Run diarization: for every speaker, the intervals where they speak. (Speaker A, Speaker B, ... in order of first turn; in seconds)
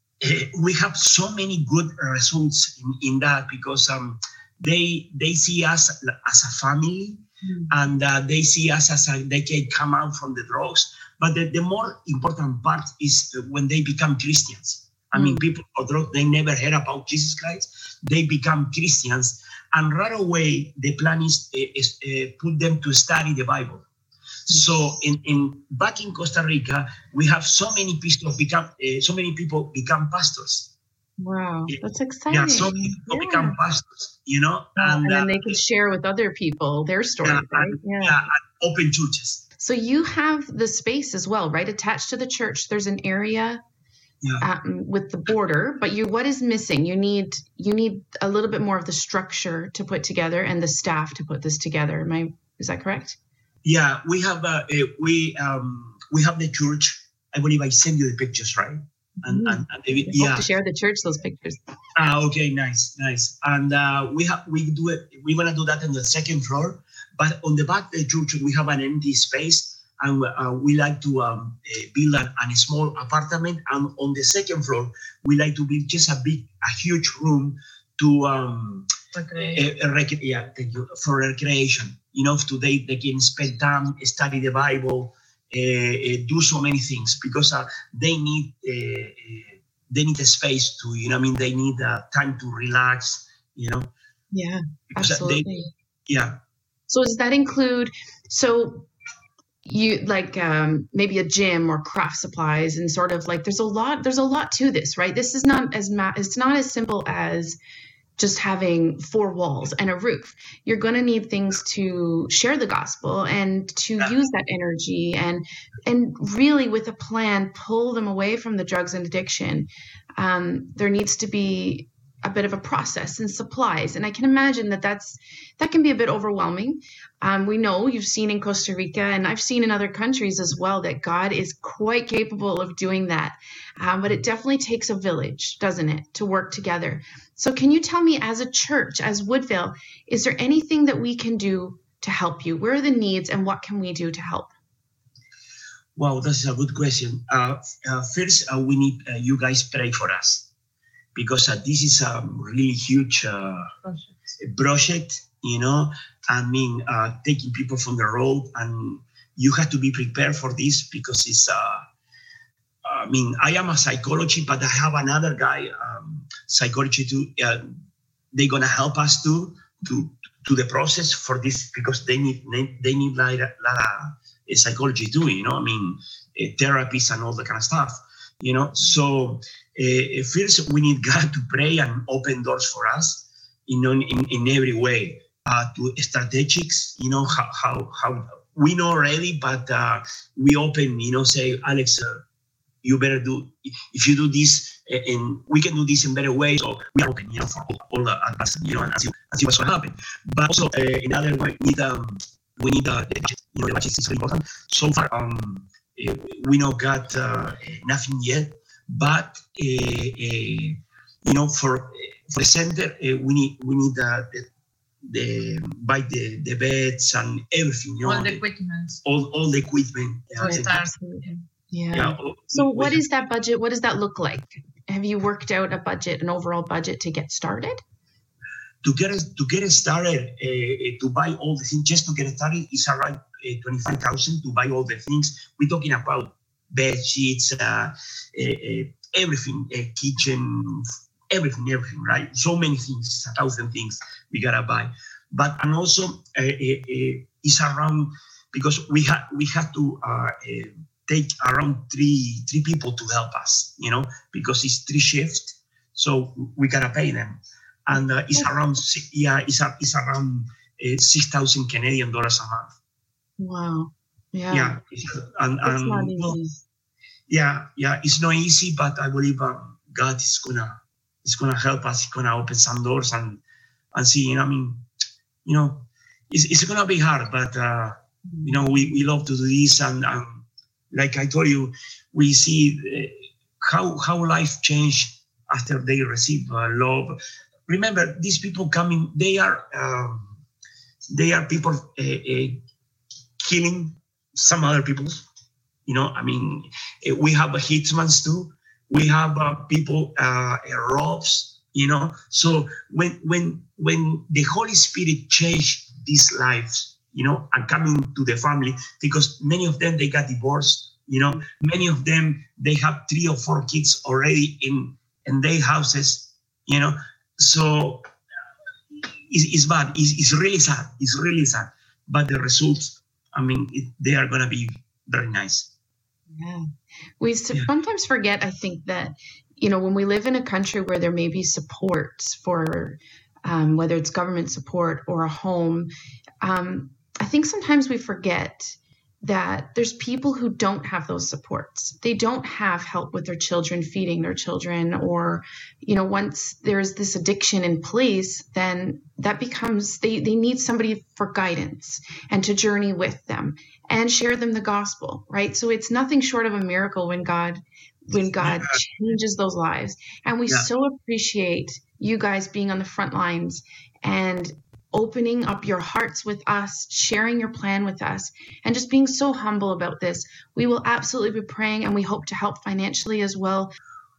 Speaker A: 0.2-23.8, 24.5-30.7, 31.7-35.6, 37.2-39.4, 53.6-60.5, 62.0-93.9, 95.0-95.5, 96.1-96.3, 145.9-150.5, 151.1-153.7, 154.4-161.8, 162.8-167.7, 168.3-192.2, 192.8-214.5, 215.0-218.4, 219.0-220.8, 221.9-223.0, 228.8-262.7, 264.5-266.4, 267.3-273.4, 273.9-274.8, 275.4-287.1, 287.7-290.4, 291.1-292.6, 293.4-295.2, 295.9-318.0, 319.0-325.7, 358.4-358.6
Speaker B: 7.4-7.7, 15.1-15.4, 31.2-33.5, 34.8-38.2, 39.6-43.6, 44.4-53.2, 59.2-61.6, 94.3-95.7, 96.9-98.9, 99.6-107.6, 108.2-144.5, 220.4-227.8, 263.4-264.8, 265.6-266.5, 326.4-326.7, 327.2-335.9, 336.4-373.7
Speaker C: 79.1-79.6, 218.0-219.0, 220.4-221.0